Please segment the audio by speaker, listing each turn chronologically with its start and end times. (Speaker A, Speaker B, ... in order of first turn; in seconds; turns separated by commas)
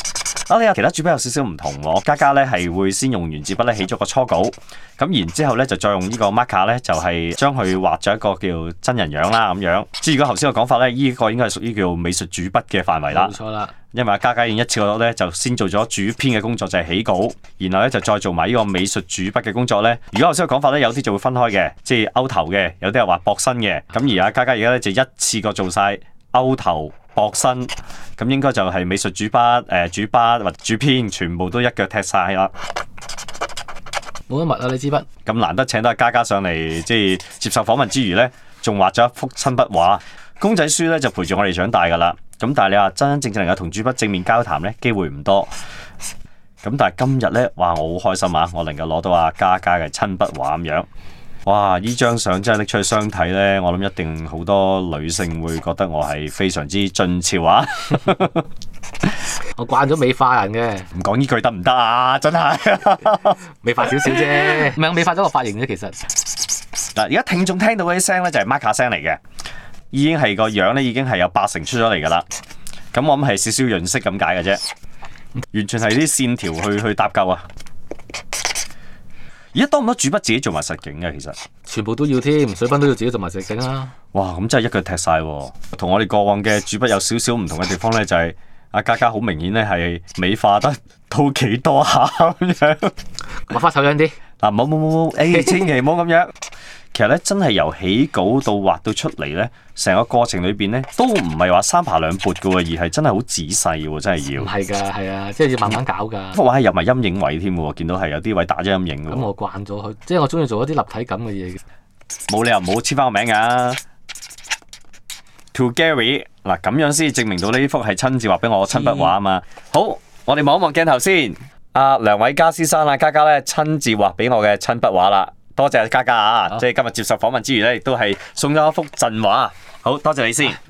Speaker A: 0.5-13.3, Speaker B: 13.1-13.7, Speaker A: 13.9-32.5, Speaker B: 34.3-35.0, Speaker A: 35.2-45.5, Speaker A: 46.6-50.9, Speaker A: 51.5-58.4, Speaker B: 59.5-60.9, Speaker A: 60.9-64.5, Speaker B: 63.6-66.0, Speaker A: 66.9-69.2, Speaker A: 69.9-72.2, Speaker A: 72.9-74.6, Speaker A: 75.5-77.4, Speaker A: 79.5-81.3, Speaker B: 81.7-83.9, Speaker A: 84.1-92.9, Speaker B: 93.5-94.2, Speaker A: 94.4-96.3, Speaker B: 95.3-95.6, Speaker A: 96.9-104.5, Speaker B: 104.4-106.4, Speaker A: 106.3-109.3, Speaker B: 109.1-111.6, Speaker A: 112.3-113.8, Speaker A: 115.5-130.6, Speaker B: 118.7-119.1